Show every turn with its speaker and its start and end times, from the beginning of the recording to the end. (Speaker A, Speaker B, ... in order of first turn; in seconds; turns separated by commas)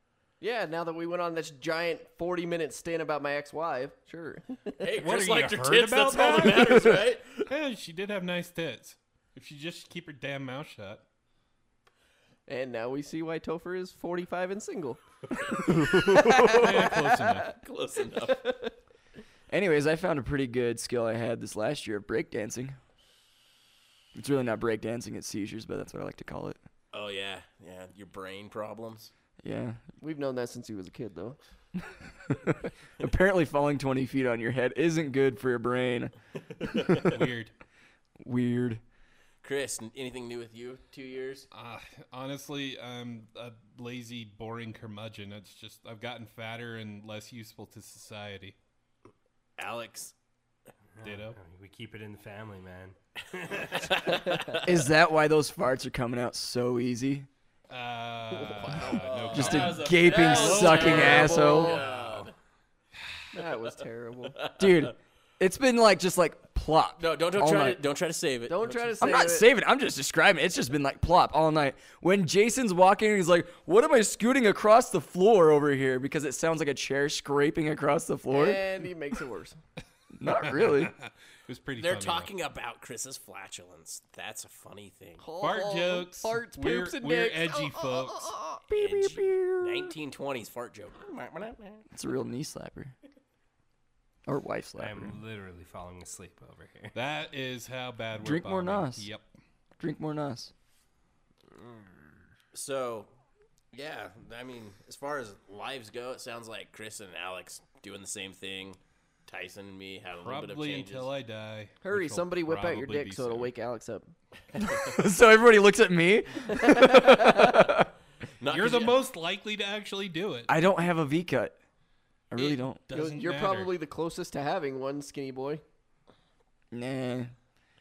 Speaker A: 0.4-4.9, Speaker B: 4.8-7.5, Speaker C: 5.0-11.0, Speaker A: 12.5-15.0, Speaker A: 15.7-17.5, Speaker C: 16.4-17.6, Speaker B: 17.5-18.4, Speaker A: 18.3-18.7, Speaker D: 19.5-22.8, Speaker D: 24.1-26.6, Speaker B: 26.9-29.1, Speaker D: 29.4-29.8, Speaker A: 30.0-31.4, Speaker D: 32.3-36.1, Speaker B: 36.6-37.2, Speaker C: 37.0-37.5, Speaker D: 38.2-38.8, Speaker B: 39.4-41.5, Speaker C: 41.5-48.5, Speaker B: 49.6-50.1, Speaker E: 51.0-54.2, Speaker C: 51.0-51.4, Speaker B: 53.6-54.7, Speaker A: 54.3-54.6, Speaker D: 54.6-57.3, Speaker C: 57.7-62.3, Speaker A: 58.5-59.0, Speaker B: 58.8-62.3, Speaker D: 59.3-61.8, Speaker A: 60.5-61.8, Speaker E: 61.7-62.0, Speaker A: 63.3-64.4, Speaker B: 64.4-64.9, Speaker D: 64.6-67.8, Speaker B: 67.0-69.2, Speaker A: 68.5-69.5, Speaker D: 69.0-78.6, Speaker A: 78.3-79.6, Speaker D: 80.2-80.9, Speaker C: 80.3-82.3, Speaker B: 81.8-85.2, Speaker A: 85.2-88.6, Speaker C: 85.4-88.3, Speaker D: 88.7-89.9, Speaker B: 88.7-91.9, Speaker D: 91.9-92.9, Speaker D: 94.3-95.2, Speaker E: 94.8-97.0, Speaker C: 96.9-99.3, Speaker D: 98.2-99.1, Speaker D: 99.8-100.5, Speaker B: 102.5-103.1, Speaker B: 103.7-111.1, Speaker C: 110.2-113.5, Speaker A: 111.8-114.1, Speaker D: 114.8-117.9, Speaker A: 116.5-117.6, Speaker B: 118.4-119.0, Speaker C: 118.5-120.5, Speaker D: 120.5-121.6, Speaker D: 122.3-122.8, Speaker C: 122.4-123.7, Speaker A: 122.9-125.6, Speaker D: 126.7-127.3